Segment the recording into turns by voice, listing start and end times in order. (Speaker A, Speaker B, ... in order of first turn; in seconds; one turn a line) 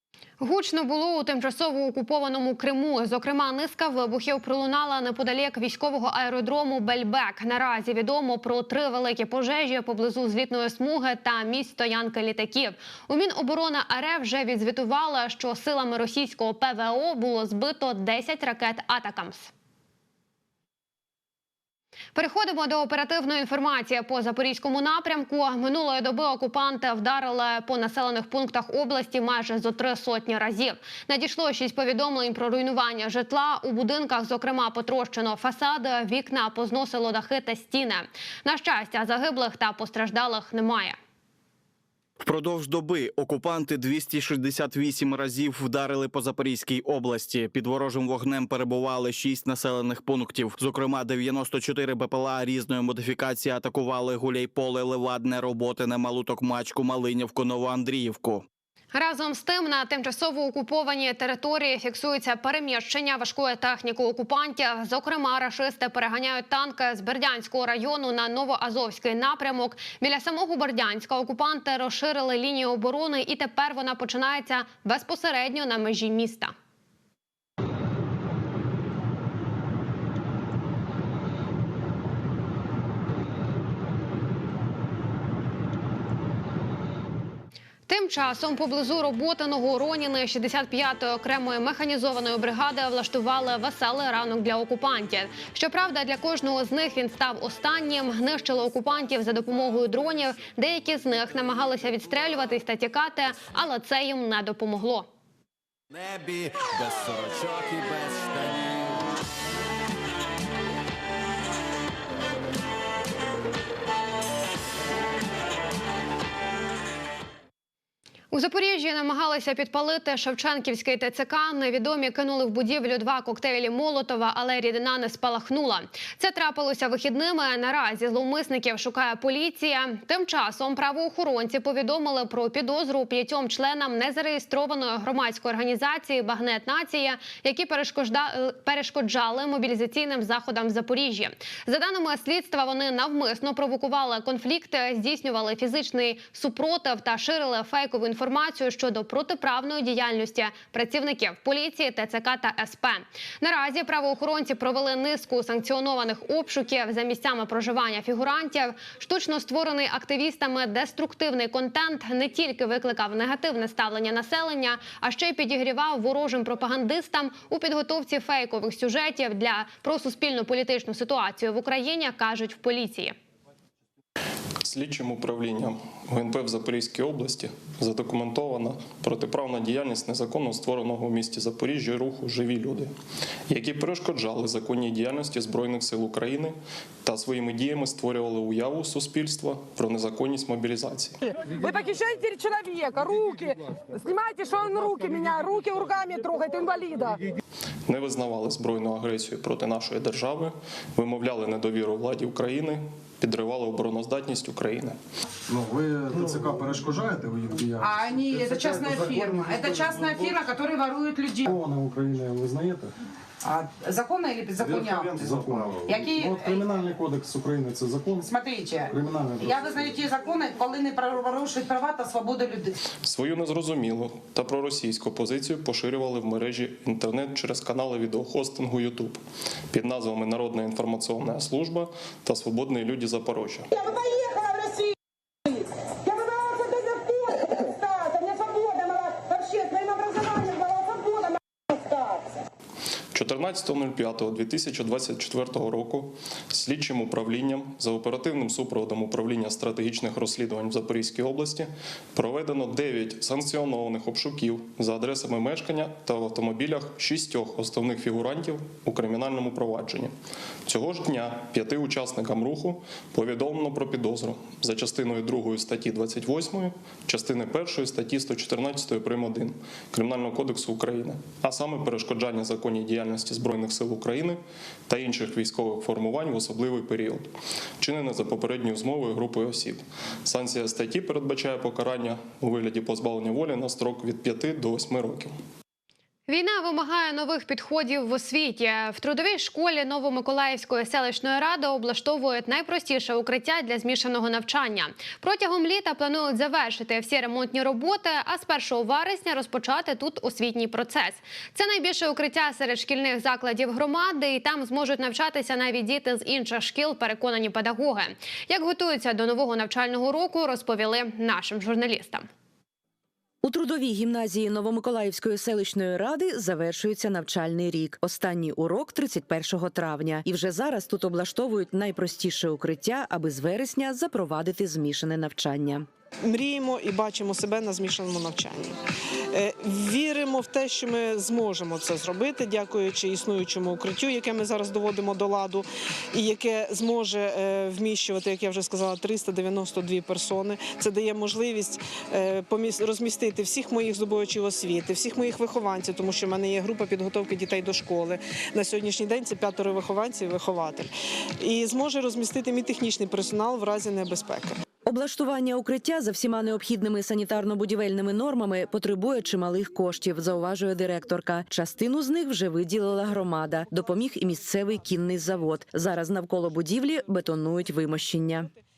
Speaker A: 0.4-19.5
Speaker A: 22.1-41.0
Speaker B: 42.2-58.4
Speaker A: 58.9-76.5
Speaker A: 87.9-105.1
Speaker C: 106.0-109.0
Speaker A: 118.3-173.1
Speaker D: 174.6-182.9
Speaker D: 183.5-191.2
Speaker E: 191.5-197.2
Speaker D: 197.9-205.0
Speaker F: 205.5-210.3
Speaker G: 207.8-211.5
Speaker F: 211.4-212.9
Speaker G: 213.4-216.7
Speaker F: 214.6-218.3
Speaker G: 218.2-222.7
Speaker F: 218.9-219.9
Speaker D: 223.0-233.7
Speaker D: 243.1-260.1
Speaker D: 260.6-285.3
Speaker A: 286.3-312.3
Speaker H: 313.4-325.9
Speaker I: 326.2-328.8
Speaker I: 329.3-354.6
Speaker H: 354.8-368.5